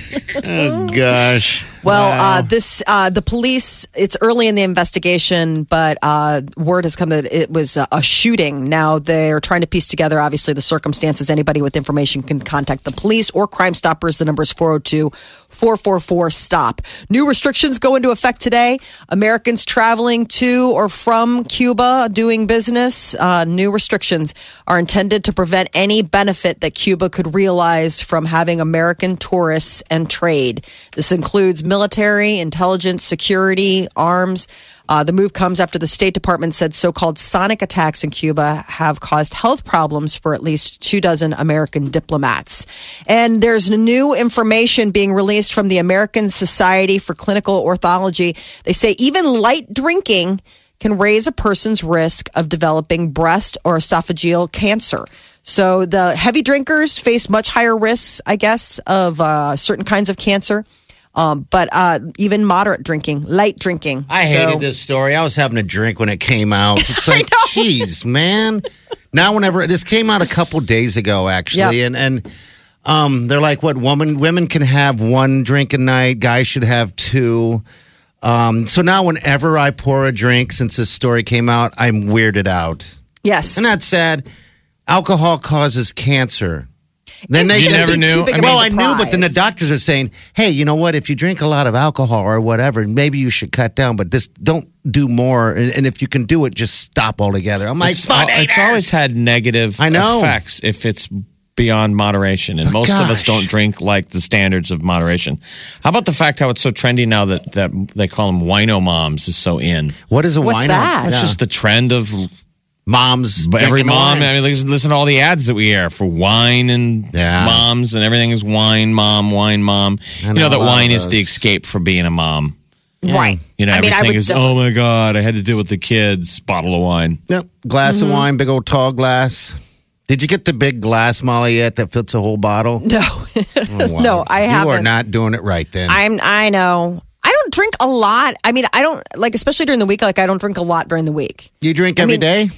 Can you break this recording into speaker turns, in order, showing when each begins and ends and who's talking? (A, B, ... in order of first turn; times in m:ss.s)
0:00.3-0:02.5 A
0:00.3-0:00.9 B
0:01.8-1:04.6 B
1:04.1-1:12.2 A
1:06.8-1:07.6 B
1:11.5-1:11.8 B
1:12.8-1:17.6 A
1:18.2-1:22.9 A
1:23.2-1:23.7 B
1:23.6-1:24.2 A
1:24.9-1:26.7 A
1:27.3-1:38.8 A
1:27.3-1:29.4 B
1:27.5-1:28.6 C
1:37.8-1:50.0 C
1:39.8-1:40.4 A
1:42.6-1:43.5 A
1:50.1-1:51.4 A
1:50.4-1:51.1 B
1:51.1-1:52.3 C
1:52.8-1:54.3 A
1:53.4-2:02.5 C
1:57.1-1:57.6 A
2:00.2-2:01.4 A
2:03.0-2:04.6 B
2:03.1-2:03.4 A
2:03.6-2:07.2 C
2:07.3-2:12.8 A
2:07.8-2:08.3 B
2:12.8-2:14.9 B
2:13.7-2:16.0 A
2:15.9-2:22.3 B
2:21.6-2:22.5 A